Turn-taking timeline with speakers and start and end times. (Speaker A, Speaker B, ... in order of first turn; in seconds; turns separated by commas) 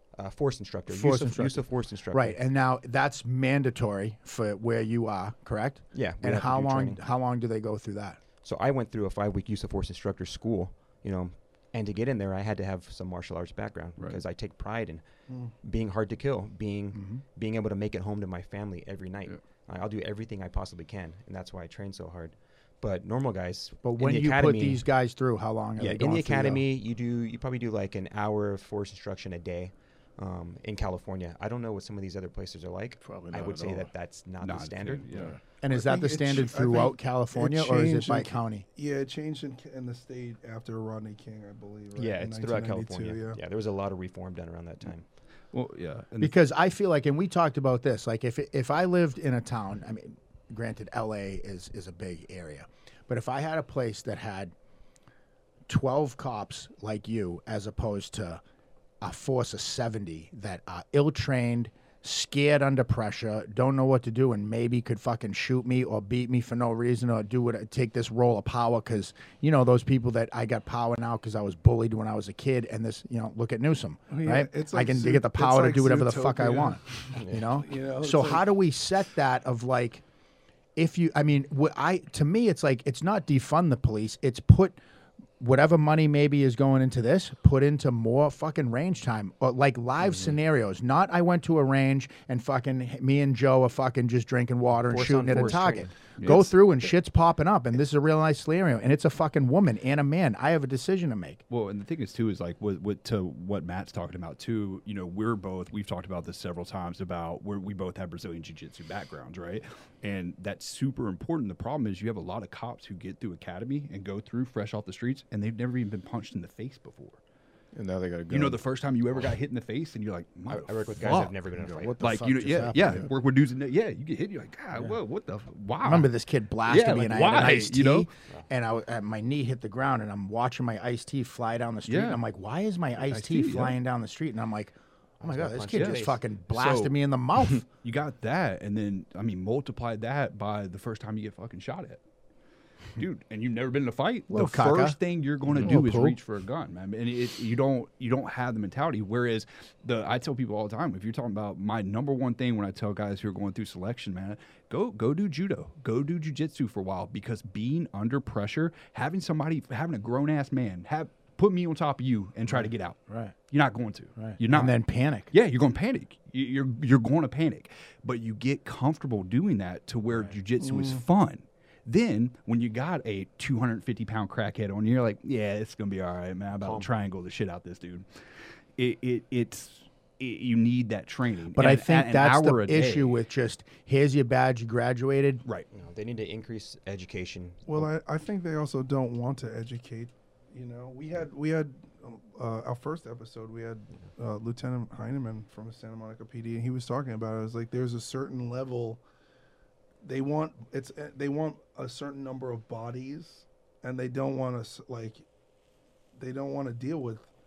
Speaker A: 0.1-2.4, Speaker B: 0.9-8.2, Speaker A: 5.9-7.0, Speaker A: 8.4-24.8, Speaker B: 16.9-17.2, Speaker B: 23.8-26.6, Speaker A: 25.8-35.1, Speaker C: 33.0-33.9, Speaker D: 34.4-35.4, Speaker C: 35.1-35.4, Speaker B: 35.6-38.6, Speaker E: 35.7-43.4, Speaker A: 42.0-45.1, Speaker D: 45.5-46.4, Speaker B: 46.2-54.5, Speaker B: 55.7-58.4, Speaker B: 59.0-80.0, Speaker E: 74.1-78.4, Speaker A: 77.2-77.5, Speaker B: 80.8-84.8, Speaker B: 85.4-101.4, Speaker A: 94.8-96.4, Speaker D: 96.2-96.5, Speaker D: 101.5-117.2, Speaker C: 117.7-118.7, Speaker D: 118.3-121.3, Speaker A: 120.5-122.0, Speaker B: 121.0-123.1, Speaker D: 122.0-126.1, Speaker B: 125.8-137.6, Speaker D: 126.7-128.1, Speaker D: 131.9-132.2, Speaker D: 133.1-133.8, Speaker A: 135.2-136.2, Speaker D: 135.7-137.0, Speaker D: 137.6-142.0, Speaker D: 143.0-178.1, Speaker B: 144.3-146.2, Speaker B: 162.5-163.3, Speaker B: 164.2-165.3, Speaker E: 170.6-171.0, Speaker A: 176.6-176.9, Speaker D: 178.8-183.2, Speaker B: 181.6-185.4, Speaker A: 185.7-187.9, Speaker E: 187.7-199.0, Speaker E: 200.0-205.2, Speaker E: 206.2-207.3